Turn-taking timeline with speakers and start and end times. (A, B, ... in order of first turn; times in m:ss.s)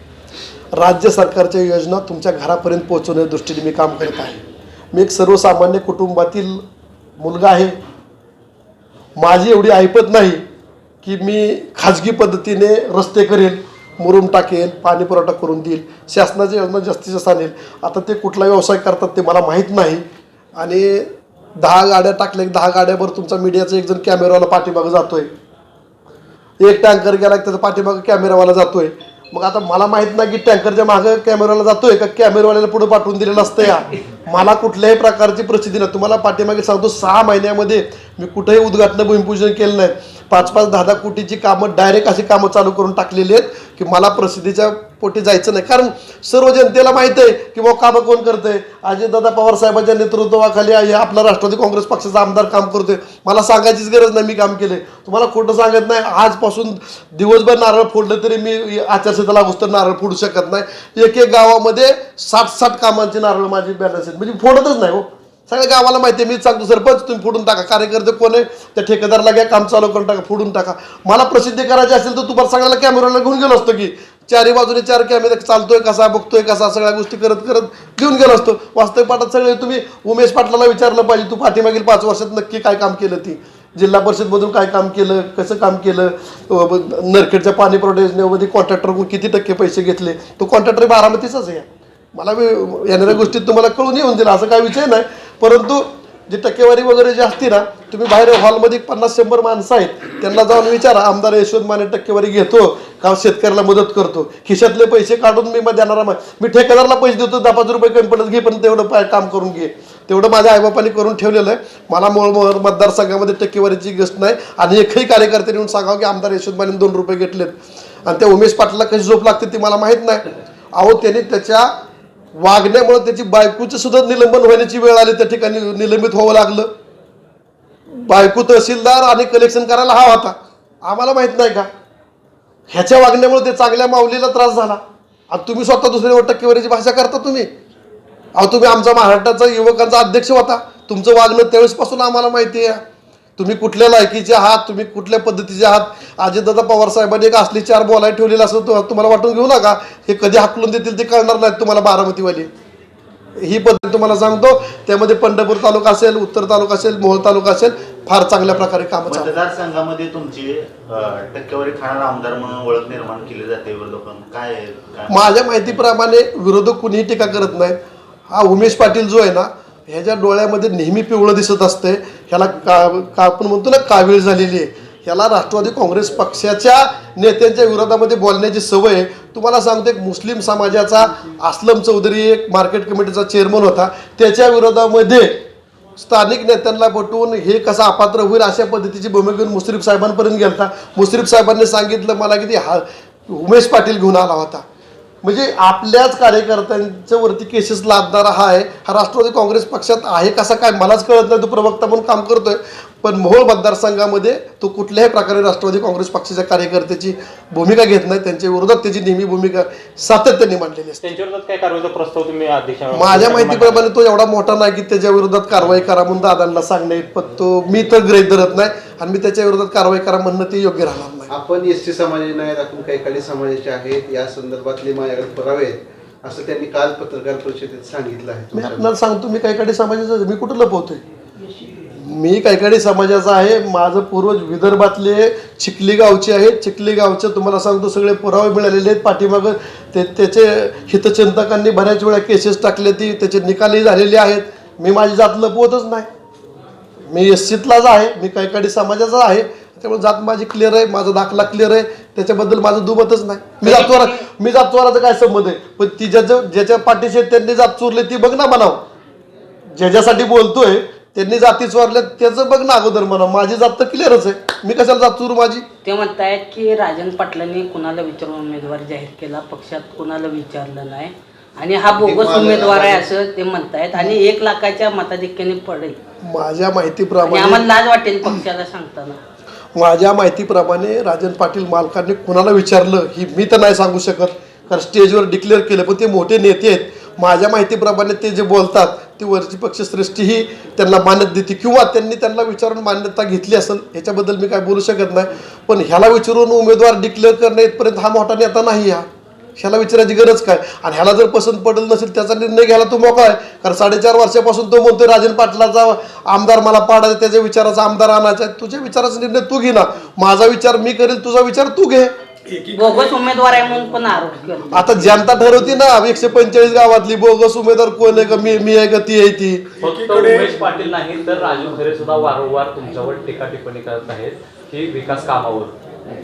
0:00.7-0:06.6 A
0:07.2-0:07.8 A
0:09.2-0:10.4 A
0:11.0-0:20.0 A
0:20.6-0:25.3 A
0:26.6-2:01.7 A
2:02.4-2:06.7 A
2:07.9-2:11.7 A
2:12.7-2:17.5 A
2:18.4-2:22.8 A
2:23.4-2:32.5 A
2:33.4-2:39.3 A
2:39.1-2:45.8 B
2:45.1-3:05.4 A
3:06.0-3:14.6 A
3:15.2-3:31.1 A
3:31.0-3:33.8 C
3:32.9-3:41.3 A
3:41.3-3:48.9 D
3:48.5-3:51.0 A
3:52.0-4:06.1 A
4:07.1-4:18.8 A
4:13.6-4:14.2 E
4:19.7-4:25.6 A
4:25.8-4:36.0 E
4:31.9-4:33.1 D
4:36.2-4:37.6 A
4:37.2-4:39.2 E
4:39.8-5:12.1 A
5:12.7-5:15.3 E
5:14.7-5:19.7 A
5:19.8-5:25.8 C